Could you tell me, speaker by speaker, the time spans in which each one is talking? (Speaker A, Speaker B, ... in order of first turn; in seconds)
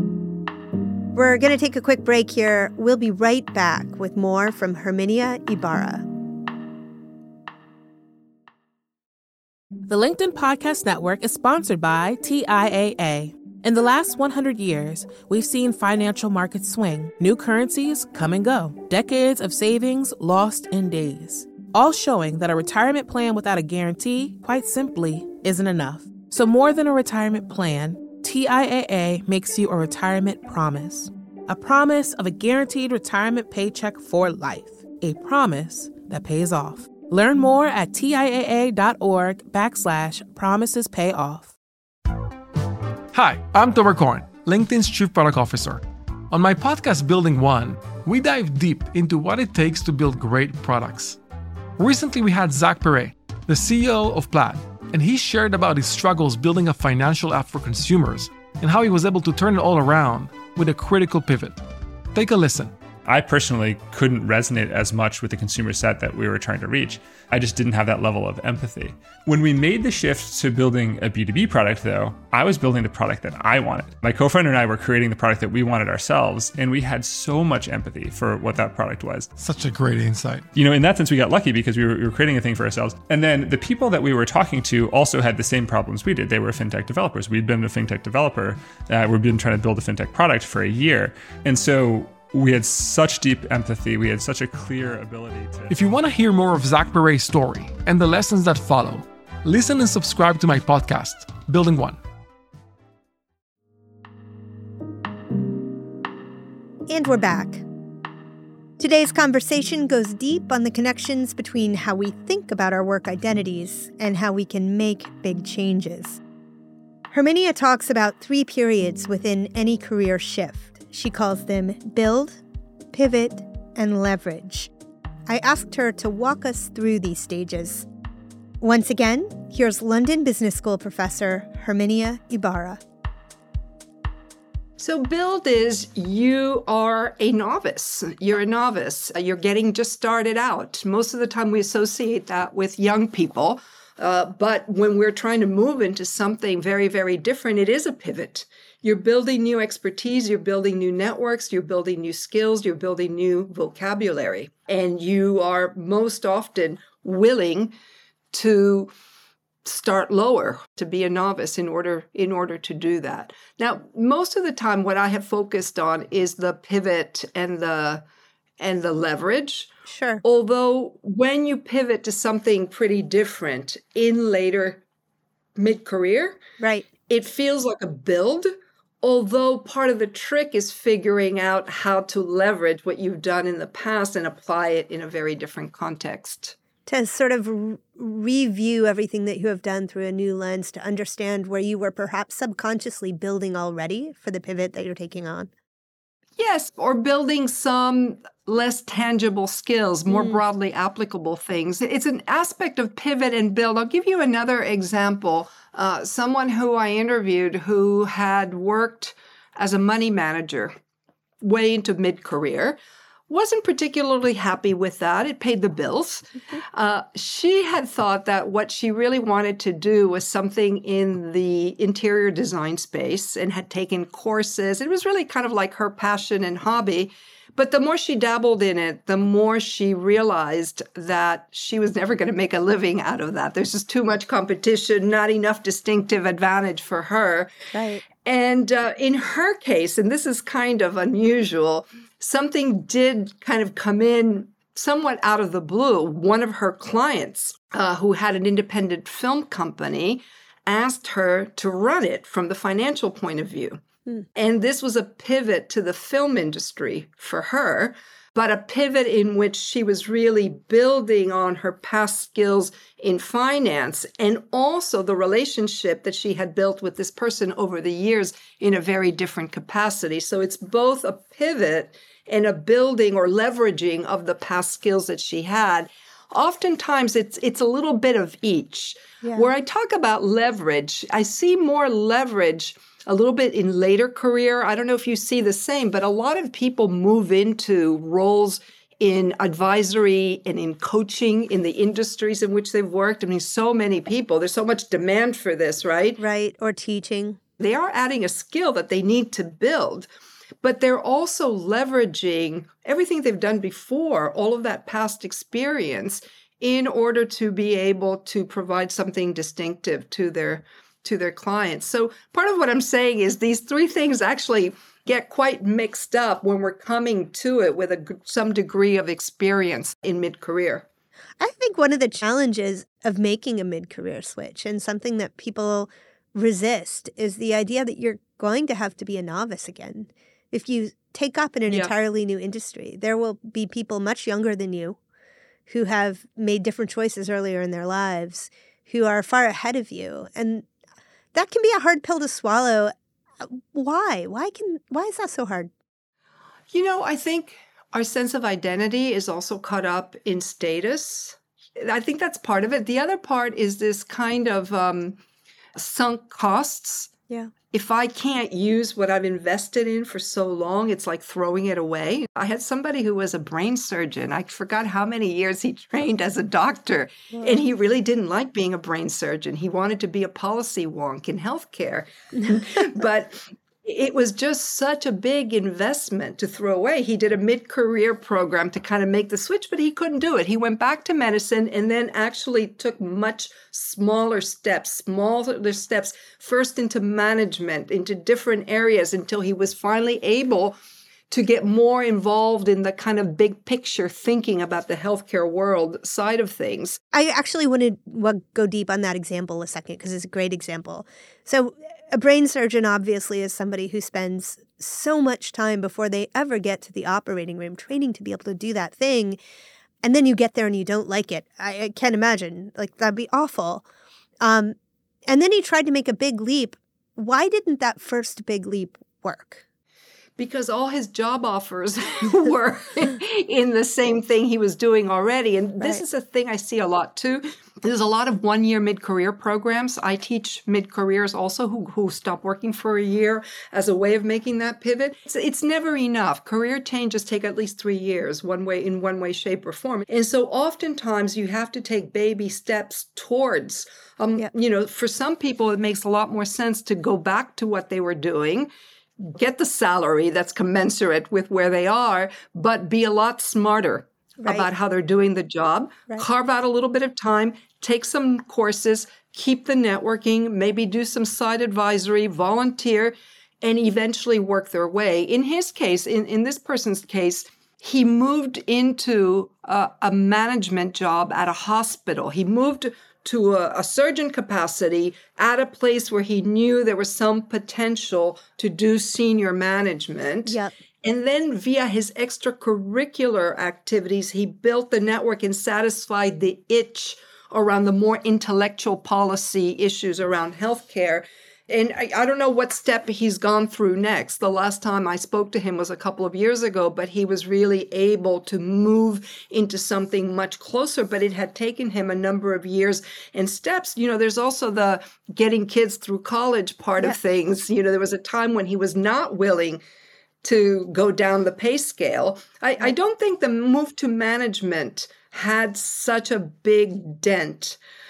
Speaker A: 1.1-6.1, 106.9-107.6, 108.8-116.2, 117.1-122.4, 122.9-124.7, 125.3-127.9, 128.6-132.8, 169.9-170.2, 176.6-176.9, 186.9-195.5, 200.1-200.4, 237.7-238.0, 279.2-279.5, 296.2-297.4, 321.4-335.0, 335.7-340.7, 341.3-342.9, 343.4-345.7, 397.1-409.4, 410.0-413.9, 414.4-419.6, 454.4-454.7, 480.5-480.7
Speaker B: 9.9-41.5
Speaker C: 43.1-51.2, 51.8-61.6, 62.1-62.7, 79.4-80.5, 95.7-102.0
Speaker D: 63.1-79.3, 80.5-95.7
Speaker E: 134.8-157.7, 158.3-158.9, 159.7-168.0, 168.6-169.7, 170.2-174.8, 175.6-176.4, 177.1-178.5, 179.0-186.6, 196.4-210.7, 211.4-212.8, 213.3-237.5, 238.2-253.8, 254.4-296.2, 297.6-300.1, 300.6-320.9, 346.7-355.2, 355.8-357.1, 357.7-390.8, 391.3-397.0, 420.4-448.7, 449.2-509.8, 510.4-517.8